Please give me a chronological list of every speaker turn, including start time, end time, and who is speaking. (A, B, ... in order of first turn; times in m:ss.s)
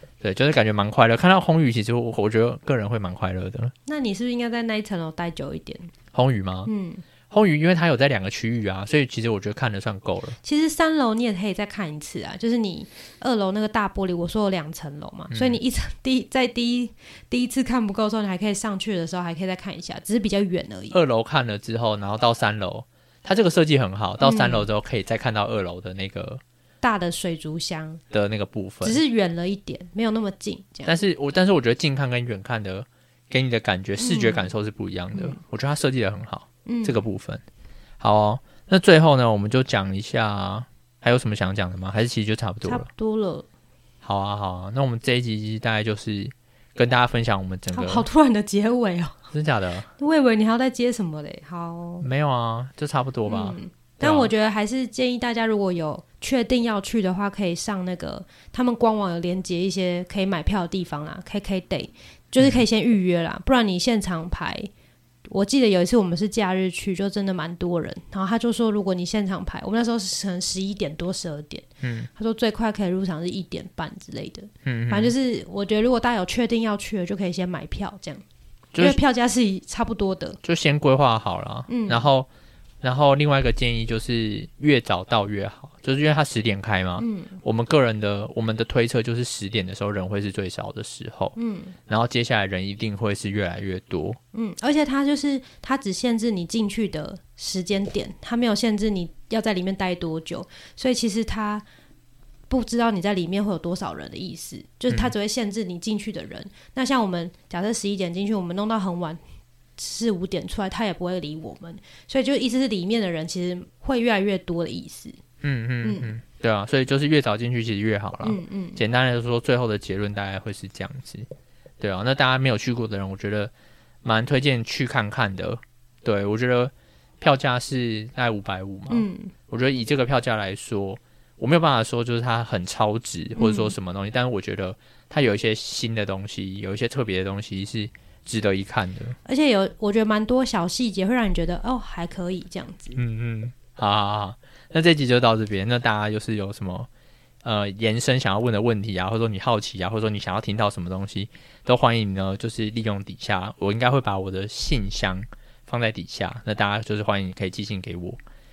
0:00.2-0:03.7 A
0:03.9-0:05.9 B
0:06.1-0:06.7 A
0:06.7-0:07.0 B
0:07.3-0:10.4 A
0:10.4-0:21.0 B
0:15.3-0:15.6 A
0:20.9-0:26.4 A
0:24.2-0:24.7 B
0:26.8-0:28.0 B
0:28.1-0:29.0 A
0:28.8-0:31.0 B
0:30.9-0:37.4 A
0:34.0-0:34.5 B
0:35.1-0:35.4 B
0:36.7-0:37.0 B
0:38.0-0:42.9 A
0:42.6-0:43.5 B
0:44.0-0:48.1 A
0:47.7-0:49.2 B
0:49.3-0:49.9 A
0:50.0-0:52.1 B
0:52.0-0:54.3 A
0:53.3-1:04.7 B
1:05.3-1:18.2 B
1:11.8-1:12.1 A
1:14.6-1:15.1 A
1:18.7-1:19.0 A
1:18.8-1:20.4 B
1:20.4-1:22.3 A
1:21.7-1:22.1 B
1:22.8-1:31.4 A
1:27.0-1:27.4 B
1:31.4-1:31.8 B
1:31.9-1:34.2 A
1:34.3-1:41.6 B
1:42.5-1:49.2 B
1:49.8-1:55.2 B
1:55.4-2:01.3 A
1:55.8-1:56.1 B
1:58.2-1:58.8 B
2:01.8-2:03.5 A
2:04.0-2:19.2 A
2:08.9-2:09.3 B
2:13.4-2:13.7 B
2:19.3-2:23.0 B
2:23.0-2:26.9 A
2:27.4-2:38.2 A